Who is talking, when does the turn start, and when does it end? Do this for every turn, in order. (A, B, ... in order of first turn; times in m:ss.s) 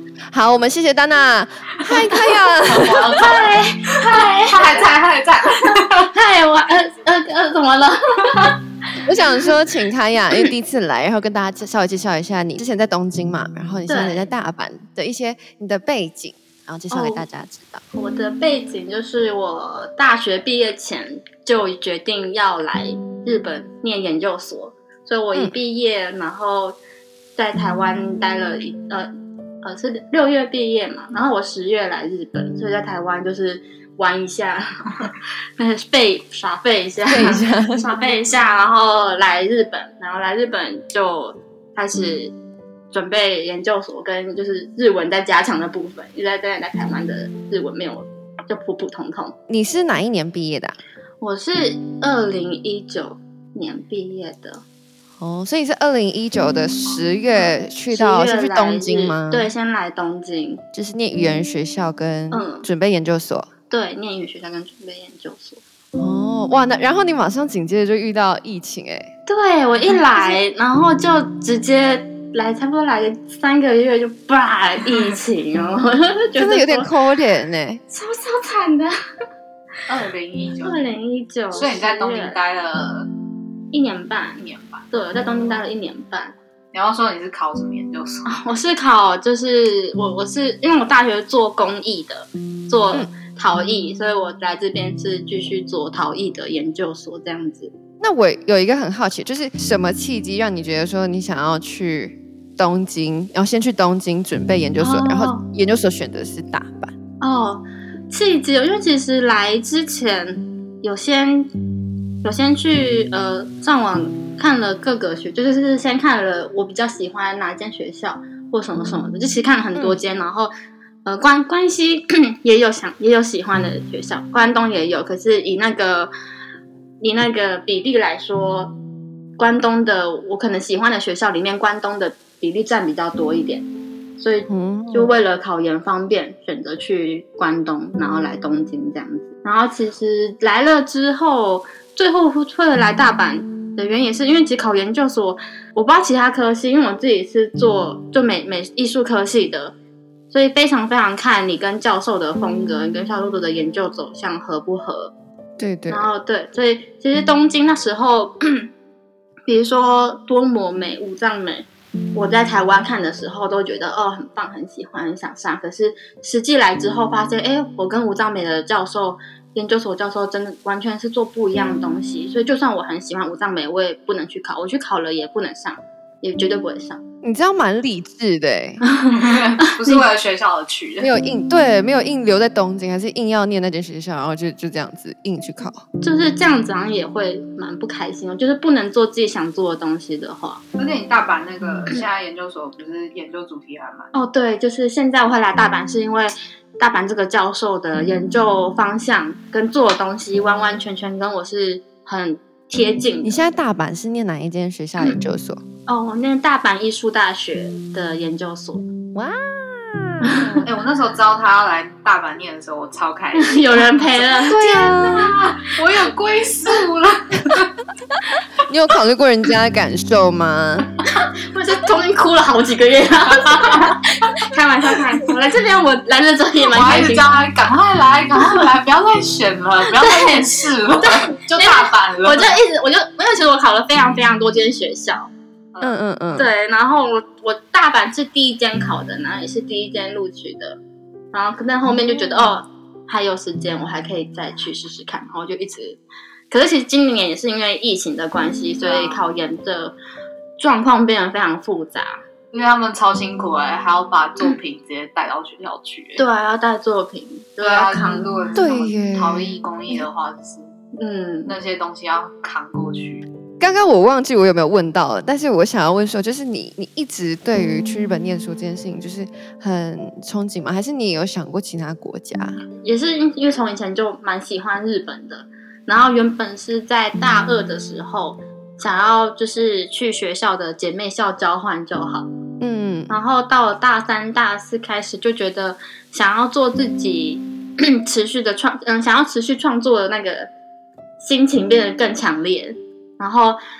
0:00.3-0:03.2 A
0:01.8-0:06.1 B
0:03.2-0:04.9 C
0:06.1-0:08.5 C
0:09.0-0:17.8 A
0:13.9-0:14.3 C
0:16.9-0:17.2 C
0:17.9-0:26.8 C
0:27.4-0:29.1 C
0:29.6-0:42.3 C
0:37.1-0:37.8 A
0:42.9-0:49.4 C
0:49.5-0:50.8 A
0:51.2-0:54.6 C
0:55.2-0:59.5 A
0:57.4-1:00.6 C
1:00.7-1:03.5 A
1:02.3-1:02.7 C
1:03.7-1:05.6 C
1:06.0-1:09.1 A
1:09.3-1:16.9 C
1:16.4-1:17.8 A
1:17.9-1:18.9 C
1:19.9-1:20.8 B
1:20.6-1:22.4 C
1:21.5-1:23.1 B
1:23.7-1:26.3 C
1:24.4-1:24.9 B
1:26.7-1:28.4 B
1:28.2-1:37.7 C
1:38.0-1:46.9 A
1:44.8-1:45.4 C
1:47.2-1:51.5 C
1:52.2-2:00.5 C
2:01.0-2:06.1 C
2:07.0-2:08.7 C
2:09.4-2:13.7 C
2:14.2-2:29.7 C
2:14.5-2:15.1 A
2:30.3-2:35.1 C
2:35.6-2:36.1 A
2:35.9-2:38.7 C
2:39.5-2:57.0 C
2:57.2-2:58.8 A
2:58.8-3:00.0 C
2:59.1-3:01.1 B
3:01.0-3:05.8 A
3:06.0-3:10.6 C
3:10.8-3:14.1 B
3:14.1-3:23.4 C
3:23.2-3:25.6 A
3:25.9-3:28.8 C
3:29.1-3:30.6 A
3:30.6-3:37.7 B
3:33.3-3:34.6 C
3:34.5-3:35.4 A
3:38.6-3:40.9 A
3:41.0-3:47.4 C
3:46.7-3:52.6 B
3:50.0-3:50.4 C
3:51.0-4:00.8 C
3:55.8-3:56.5 A
4:01.3-4:09.9 C
4:01.8-4:02.4 A
4:08.8-4:09.2 B
4:10.6-4:12.2 C
4:12.5-4:16.2 B
4:16.2-4:18.4 C
4:17.6-4:20.7 B
4:18.6-4:19.6 A
4:21.0-4:21.5 C
4:21.4-4:23.2 B
4:23.6-4:32.6 A
4:32.8-4:42.3 C
4:42.6-4:43.1 A
4:43.1-4:50.5 C
4:51.2-4:53.6 C